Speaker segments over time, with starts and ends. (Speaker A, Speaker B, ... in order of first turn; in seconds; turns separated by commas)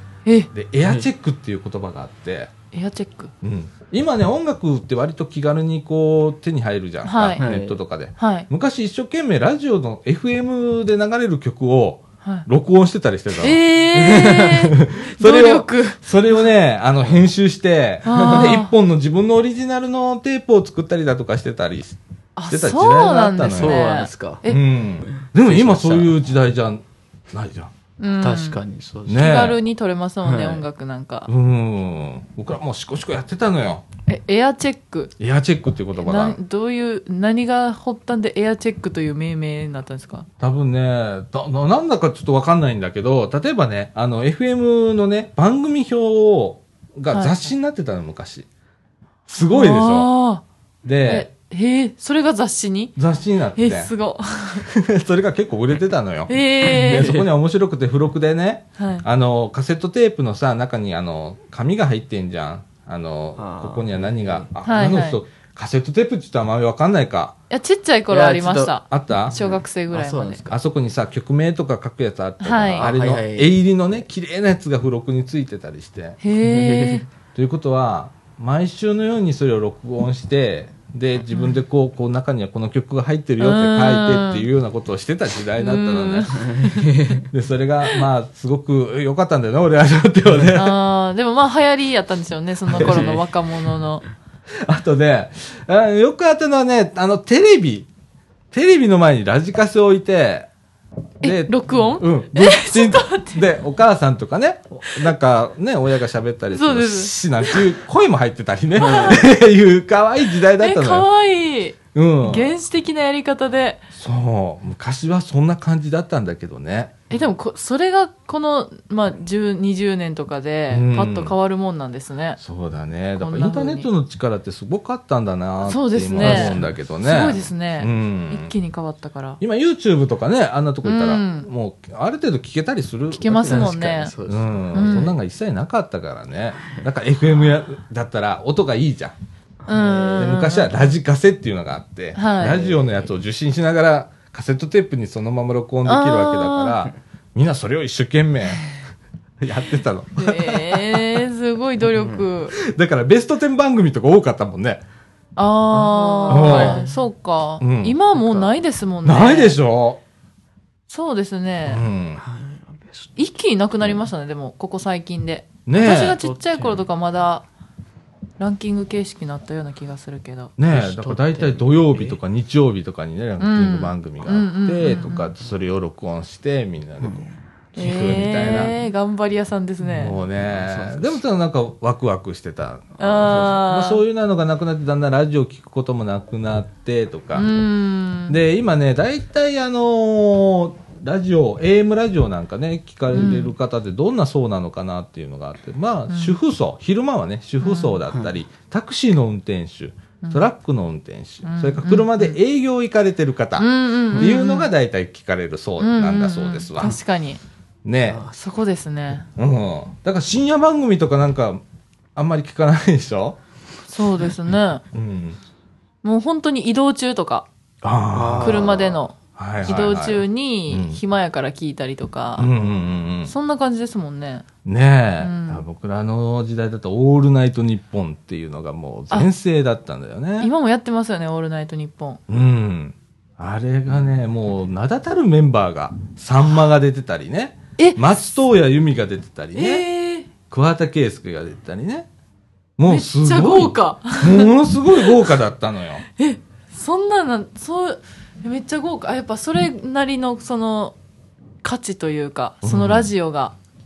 Speaker A: 0.5-2.5, Speaker B: 2.7-3.3, Speaker A: 3.4-13.6, Speaker B: 7.0-7.4, Speaker C: 7.4-7.8, Speaker B: 8.2-8.5, Speaker B: 13.4-16.4, Speaker C: 14.0-14.5, Speaker A: 14.4-22.0, Speaker B: 18.1-18.7, Speaker C: 18.1-18.6, Speaker B: 22.4-24.6, Speaker A: 22.5-23.9, Speaker C: 23.5-24.4, Speaker A: 24.4-27.7, Speaker C: 25.1-26.1, Speaker B: 28.0-28.6, Speaker C: 28.2-29.3, Speaker A: 29.1-29.6, Speaker B: 29.1-31.3, Speaker C: 30.2-30.6, Speaker A: 31.3-33.9, Speaker B: 34.1-35.1, Speaker A: 35.2-36.4, Speaker B: 36.0-40.3, Speaker A: 40.4-48.5, Speaker B: 47.1-47.4, Speaker A: 49.3-50.1, Speaker B: 49.4-50.4, Speaker A: 50.8-51.3, Speaker B: 51.0-53.0, Speaker A: 53.0-53.9, Speaker B: 53.5-54.7, Speaker A: 54.6-67.3, Speaker B: 56.3-57.1, Speaker C: 56.7-57.3, Speaker B: 58.8-59.0, Speaker C: 63.4-64.5, Speaker B: 64.6-65.2, Speaker B: 67.5-70.4, Speaker C: 68.1-68.8, Speaker A: 68.9-69.3, Speaker C: 69.3-70.6, Speaker A: 70.5-76.2, Speaker B: 72.4-72.9, Speaker C: 72.8-73.5, Speaker B: 76.2-77.1, Speaker C: 76.4-77.0, Speaker A: 77.3-86.5, Speaker B: 83.4-84.5, Speaker B: 85.6-87.1, Speaker C: 86.4-87.3, Speaker A: 87.2-90.8, Speaker B: 90.5-94.0, Speaker C: 92.7-93.3, Speaker A: 92.8-93.1, Speaker A: 94.6-97.9, Speaker A: 98.5-100.5, Speaker B: 101.2-103.5, Speaker A: 101.2-111.1, Speaker B: 106.5-107.7, Speaker B: 108.8-109.3, Speaker C: 108.8-109.2, Speaker B: 110.6-113.9, Speaker A: 111.9-112.5, Speaker A: 113.9-117.0, Speaker B: 117.1-122.4, Speaker A: 120.7-121.3, Speaker A: 122.4-128.5, Speaker B: 123.2-123.9, Speaker B: 125.6-129.4, Speaker C: 126.2-126.7, Speaker A: 129.4-139.2, Speaker B: 130.8-131.5, Speaker B: 133.1-134.1, Speaker C: 133.4-135.1, Speaker B: 134.7-135.1, Speaker C: 139.7-140.5, Speaker B: 139.7-140.9, Speaker A: 140.2-148.7, Speaker B: 142.2-142.6, Speaker C: 142.4-143.1, Speaker B: 145.8-146.8, Speaker A: 149.4-151.2, Speaker B: 150.2-152.6, Speaker C: 152.0-152.2, Speaker A: 152.6-154.8, Speaker B: 155.4-159.6, Speaker C: 155.7-156.9, Speaker A: 156.3-156.8, Speaker A: 157.6-158.0, Speaker C: 158.2-158.5, Speaker A: 159.1-160.0, Speaker B: 160.9-161.8, Speaker A: 161.7-162.2, Speaker C: 162.2-163.1, Speaker B: 163.2-167.5, Speaker A: 165.7-166.2, Speaker C: 165.8-166.8, Speaker B: 168.4-170.5, Speaker A: 170.6-178.8, Speaker C: 170.7-172.2, Speaker B: 173.4-175.3, Speaker C: 177.0-177.3, Speaker B: 177.8-180.2, Speaker A: 180.0-187.5, Speaker C: 180.1-181.2, Speaker B: 183.0-184.0, Speaker B: 187.3-188.4, Speaker A: 188.3-207.0, Speaker B: 193.1-193.5, Speaker B: 196.1-196.4, Speaker B: 197.6-198.0, Speaker B: 200.2-200.5, Speaker B: 201.4-202.4, Speaker B: 203.6-204.7, Speaker B: 205.8-207.4, Speaker A: 207.8-208.2, Speaker C: 208.1-208.3, Speaker B: 208.3-209.3, Speaker A: 209.4-211.6, Speaker A: 212.2-213.4, Speaker B: 213.9-214.8, Speaker A: 214.9-215.4, Speaker B: 216.0-217.5, Speaker A: 217.8-221.0, Speaker C: 218.1-218.9, Speaker B: 218.4-222.5, Speaker A: 222.4-223.3, Speaker B: 223.3-224.4, Speaker A: 224.7-230.5, Speaker B: 225.2-225.6, Speaker B: 230.4-232.2, Speaker A: 232.3-239.9, Speaker B: 239.5-240.3, Speaker A: 240.5-242.1, Speaker A: 242.8-246.0, Speaker B: 242.9-245.3, Speaker B: 246.2-251.0, Speaker B: 251.6-253.6, Speaker A: 252.6-253.1